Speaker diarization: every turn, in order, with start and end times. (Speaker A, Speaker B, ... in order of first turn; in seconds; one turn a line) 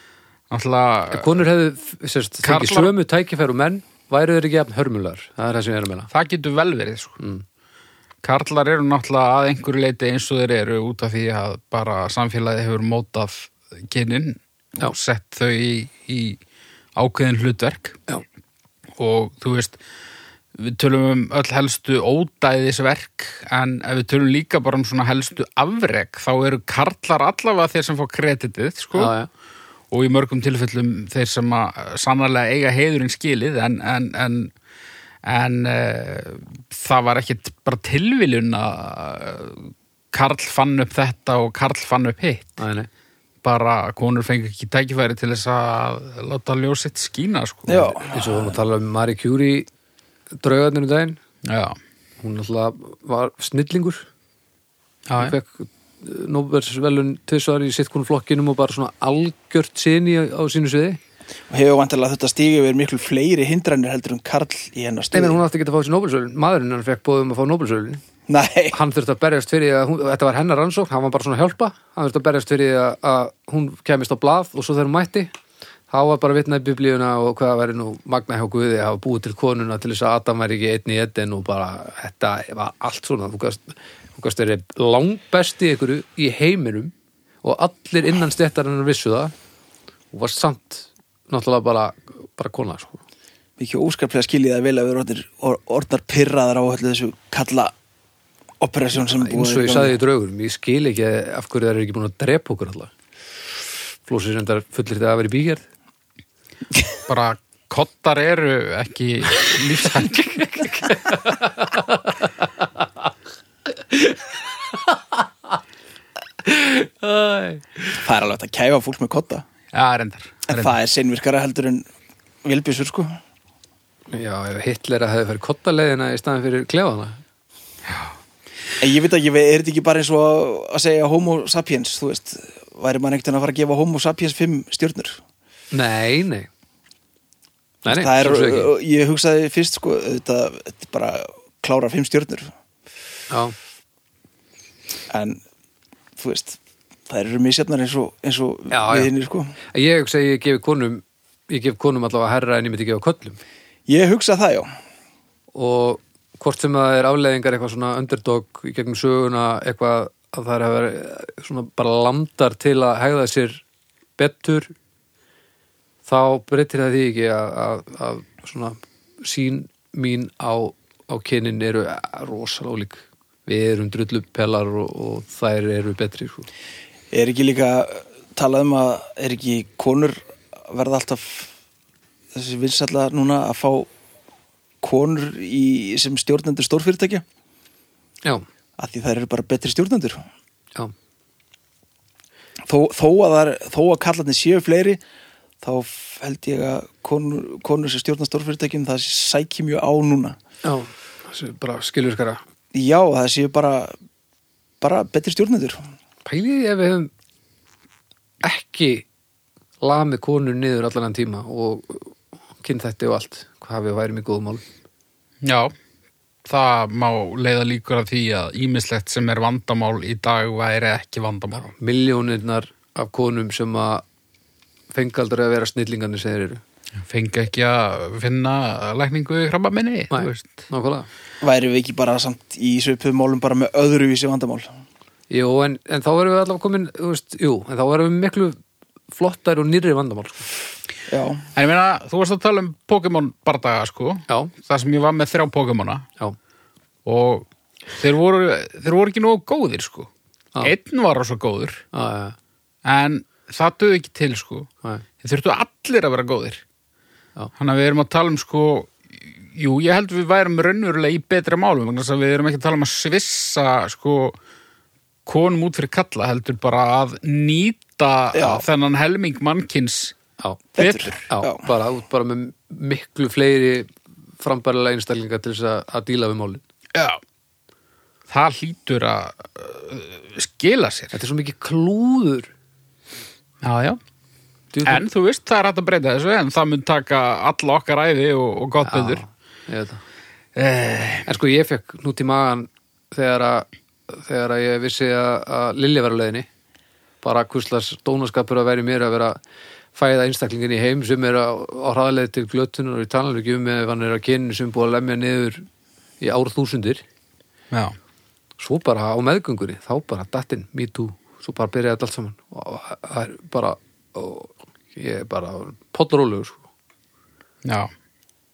Speaker A: 0.5-1.4
Speaker B: 1.1-6.1
Speaker A: 2.4-2.9
Speaker A: 6.1-7.2
Speaker A: 8.2-16.4
Speaker A: 16.9-18.0
Speaker A: 19.0-19.8
Speaker A: 20.5-29.1
Speaker B: 28.9-29.3
Speaker A: 29.9-34.5
Speaker A: 35.2-42.6
Speaker B: 42.6-42.9
Speaker A: 43.4-48.0
Speaker C: 47.7-48.5
Speaker B: 48.1-49.7
Speaker B: 50.4-51.2
Speaker A: 51.4-51.8
Speaker B: 52.2-54.1
Speaker A: 55.1-55.4
Speaker B: 55.2-61.0
Speaker C: 61.5-65.4
Speaker B: 65.1-68.0
Speaker C: 68.3-68.8
Speaker B: 68.7-75.3
Speaker B: 75.9-89.3
Speaker B: 90.1-93.0
Speaker C: 93.6-97.7
Speaker C: 98.6-100.0
Speaker B: 98.9-102.9
Speaker B: 104.0-105.6
Speaker A: 107.1-110.7
Speaker B: 110.1-112.8
Speaker B: 113.9-114.2
Speaker B: 114.7-115.2
Speaker B: 116.4-118.0
Speaker C: 118.0-119.4
Speaker A: 119.7-120.8
Speaker C: 120.5-121.8
Speaker C: 122.4-123.2
Speaker B: 124.1-127.2
Speaker A: 127.8-128.1
Speaker C: 128.8-135.2
Speaker B: 135.7-136.5
Speaker B: 137.8-138.7
Speaker C: 137.9-142.5
Speaker B: 143.3-143.6
Speaker C: 145.1-145.4
Speaker C: 146.2-146.6
Speaker C: 147.1-149.5
Speaker B: 148.7-149.1
Speaker B: 149.7-153.4
Speaker C: 153.9-154.7
Speaker B: 155.5-163.6
Speaker B: 164.2-164.7
Speaker B: 166.1-176.5
Speaker C: 177.1-181.5
Speaker C: 182.3-183.9
Speaker C: 184.8-187.2
Speaker C: 188.8-190.2
Speaker C: 192.7-195.0
Speaker C: 195.6-200.4
Speaker B: 200.6-202.4
Speaker C: 202.7-203.9
Speaker C: 204.8-205.8
Speaker B: 206.2-207.1
Speaker B: 208.4-209.0
Speaker B: 209.8-214.6
Speaker A: 215.4-215.7
Speaker A: 216.4-221.7
Speaker B: 221.6-224.0
Speaker B: 224.9-226.6
Speaker A: 227.0-230.7
Speaker B: 230.1-231.1
Speaker C: 231.4-234.7
Speaker B: 235.3-238.6
Speaker B: 239.1-240.5
Speaker C: 241.1-241.4
Speaker A: 241.5-246.0
Speaker A: 247.0-250.1
Speaker A: 250.6-251.8
Speaker B: 251.9-252.3
Speaker A: 252.8-254.7
Speaker A: 255.2-256.6
Speaker A: 257.6-264.4
Speaker A: 265.2-270.1
Speaker C: 268.3-268.6
Speaker C: 270.8-271.7
Speaker A: 270.8-271.2
Speaker B: 271.3-273.9
Speaker B: 274.4-276.6
Speaker A: 276.9-277.2
Speaker A: 278.3-281.1
Speaker B: 281.1-282.5
Speaker A: 283.6-284.0
Speaker B: 284.7-285.0
Speaker A: 284.8-289.2
Speaker B: 288.8-290.0
Speaker A: 290.5-291.3
Speaker B: 291.2-296.5
Speaker B: 297.2-299.4
Speaker B: 299.9-305.6
Speaker B: 306.2-307.0
Speaker A: 307.7-307.9
Speaker B: 308.6-316.6
Speaker A: 317.6-317.9